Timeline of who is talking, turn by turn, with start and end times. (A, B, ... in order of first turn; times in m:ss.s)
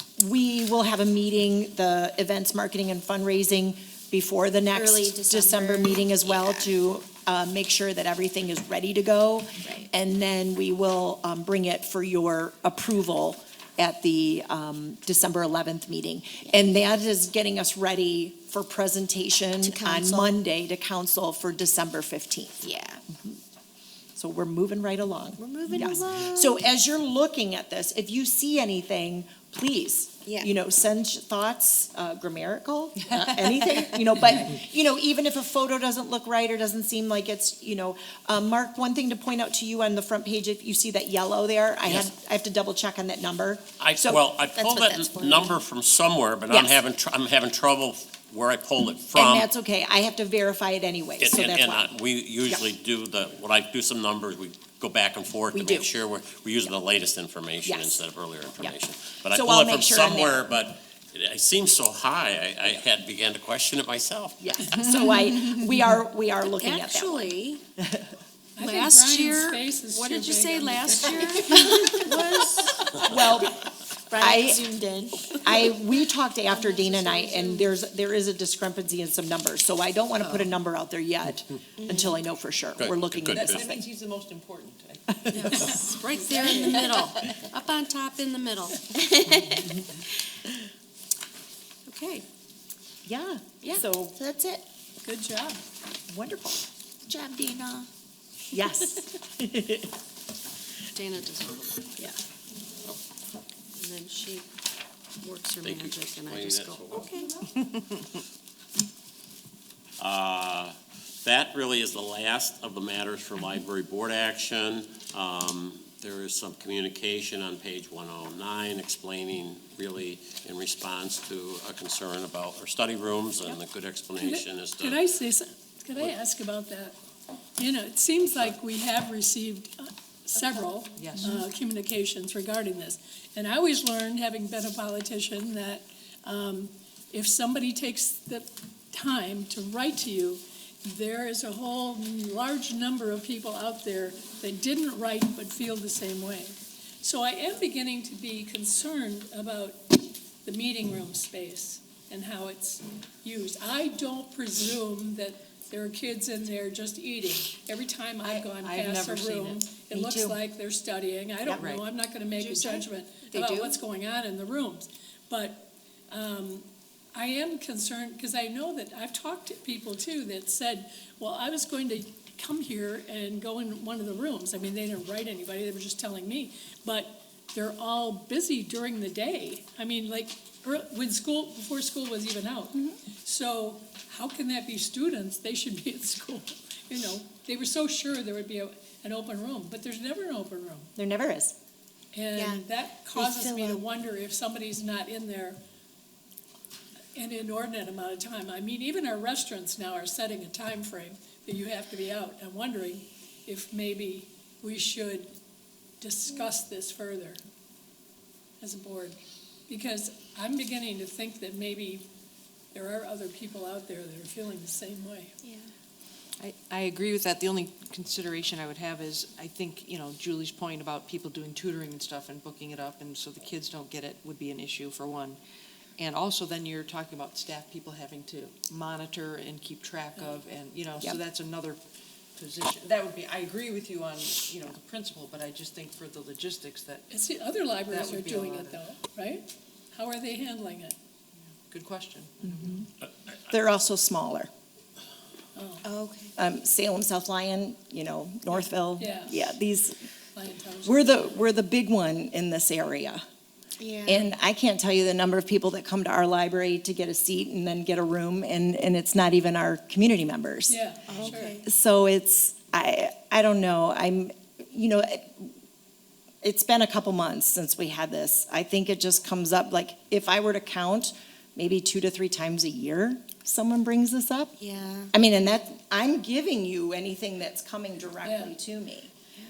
0:00.2-0:23.3 A
0:04.7-0:06.7 B
0:19.6-0:20.3 B
0:22.7-0:23.0 B
0:24.2-0:44.2 A
0:25.4-0:26.5 C
0:25.9-0:26.4 B
0:43.8-0:49.5 D
0:44.6-0:45.6 C
0:46.5-0:46.8 A
0:49.1-0:51.9 A
0:51.2-1:04.9 D
0:55.5-0:55.9 A
0:57.6-0:58.0 A
0:59.3-1:00.5 A
1:04.4-1:08.1 A
1:06.6-1:07.6 C
1:08.6-1:12.1 E
1:08.6-1:13.0 C
1:13.0-1:13.6 A
1:14.1-1:15.2 B
1:14.2-1:14.6 A
1:15.2-1:15.5 C
1:15.3-1:23.8 A
1:16.5-1:17.7 C
1:22.8-1:23.7 D
1:23.4-1:27.1 F
1:25.3-1:29.6 C
1:25.5-1:26.9 E
1:31.9-1:32.2 C
1:33.0-1:34.6 A
1:35.0-1:35.6 E
1:36.1-1:36.6 A
1:37.2-1:37.9 C
1:38.5-1:39.9 A
1:40.9-1:42.0 C
1:43.8-1:44.4 C
1:45.2-1:47.3 C
1:45.6-1:47.0 D
1:50.0-2:05.1 D
2:04.2-2:07.0 E
2:07.6-3:10.9 E
2:11.0-2:11.4 F
2:38.2-2:39.6 F
2:39.9-2:40.4 A
2:41.5-2:41.8 F
2:42.4-2:43.8 C
3:11.0-3:11.5 A
3:12.1-3:15.6 E
3:12.3-3:12.6 B
3:13.2-3:13.8 B
3:17.1-3:25.3 E
3:26.0-3:27.4 E
3:28.6-3:29.2 E
3:29.7-3:32.1 E
3:32.7-3:35.3 E
3:36.4-3:45.4 F
3:46.0-3:51.8 F
3:52.4-3:57.1 F
3:57.1-4:01.0 E
3:57.8-3:58.8 F
4:01.7-4:02.8 F
4:03.5-4:04.5 A
4:05.5-4:05.8 E
4:05.8-4:06.3 B
4:06.4-4:10.0 A
4:09.0-4:09.4 E
4:10.3-4:11.1 E
4:10.8-4:13.2 A
4:13.8-4:14.3 B
4:14.0-4:20.8 A
4:20.7-4:21.6 E
4:21.1-4:21.6 B
4:21.6-4:25.5 A
4:26.4-4:34.5 A
4:34.6-4:35.1 C
4:35.1-4:39.1 A
4:38.2-4:38.5 E